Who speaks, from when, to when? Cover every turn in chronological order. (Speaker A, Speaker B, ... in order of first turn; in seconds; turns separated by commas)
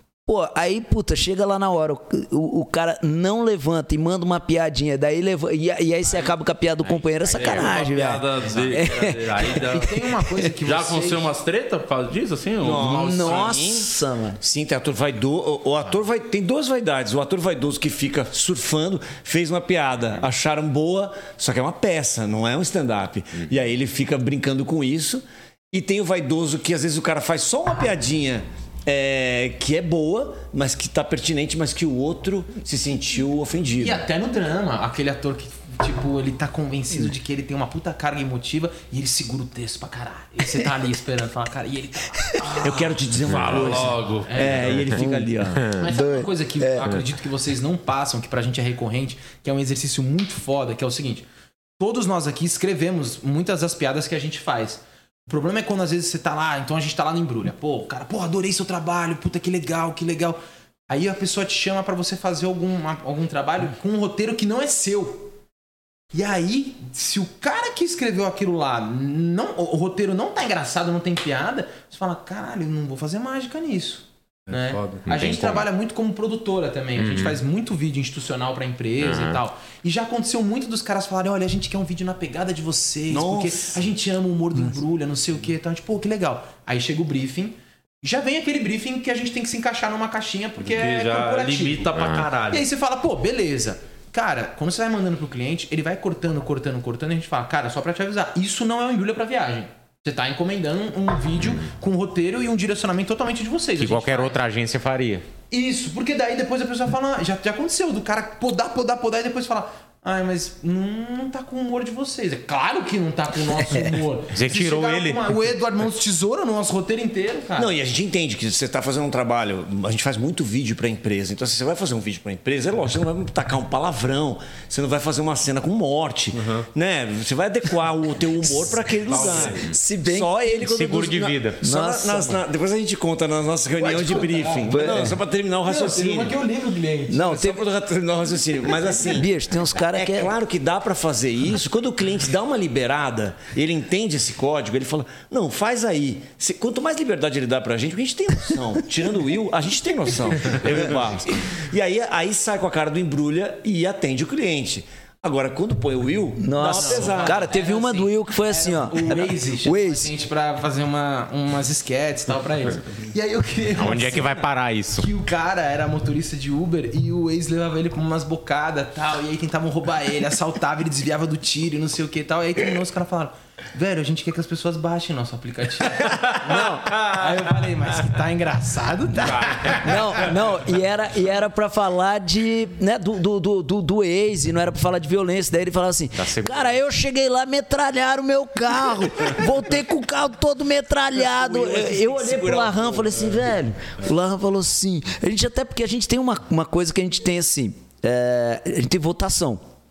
Speaker A: 0.3-9.8, Speaker B: 6.8-7.9, Speaker C: 7.3-10.1, Speaker D: 9.5-11.2, Speaker C: 10.6-13.6, Speaker E: 12.6-13.9, Speaker A: 12.7-14.4, Speaker E: 14.4-34.0, Speaker D: 33.8-43.0, Speaker E: 42.6-45.7, Speaker C: 43.3-44.9, Speaker D: 43.5-44.8, Speaker B: 45.0-45.9, Speaker D: 45.8-51.3, Speaker A: 45.8-46.9, Speaker D: 51.8-65.3, Speaker D: 66.1-92.0, Speaker C: 74.5-75.1, Speaker B: 75.1-75.7, Speaker B: 77.0-77.4, Speaker B: 79.0-79.4, Speaker E: 83.1-83.8, Speaker C: 90.6-92.7, Speaker B: 91.9-92.3, Speaker D: 92.5-104.4, Speaker B: 103.8-105.2, Speaker D: 105.5-117.7, Speaker B: 114.3-115.3, Speaker E: 117.6-136.4, Speaker C: 126.3-126.7, Speaker A: 128.5-130.4, Speaker C: 129.1-129.7, Speaker B: 130.5-131.7, Speaker A: 131.6-132.4, Speaker D: 133.8-135.0, Speaker A: 134.7-135.2, Speaker D: 135.6-137.3, Speaker A: 137.1-137.6, Speaker E: 137.2-139.3, Speaker A: 139.1-140.3, Speaker E: 139.8-157.5, Speaker A: 156.4-160.1, Speaker D: 156.7-180.1, Speaker B: 163.8-165.1, Speaker B: 176.5-177.0, Speaker A: 179.7-199.6, Speaker B: 186.2-186.8, Speaker E: 191.2-193.5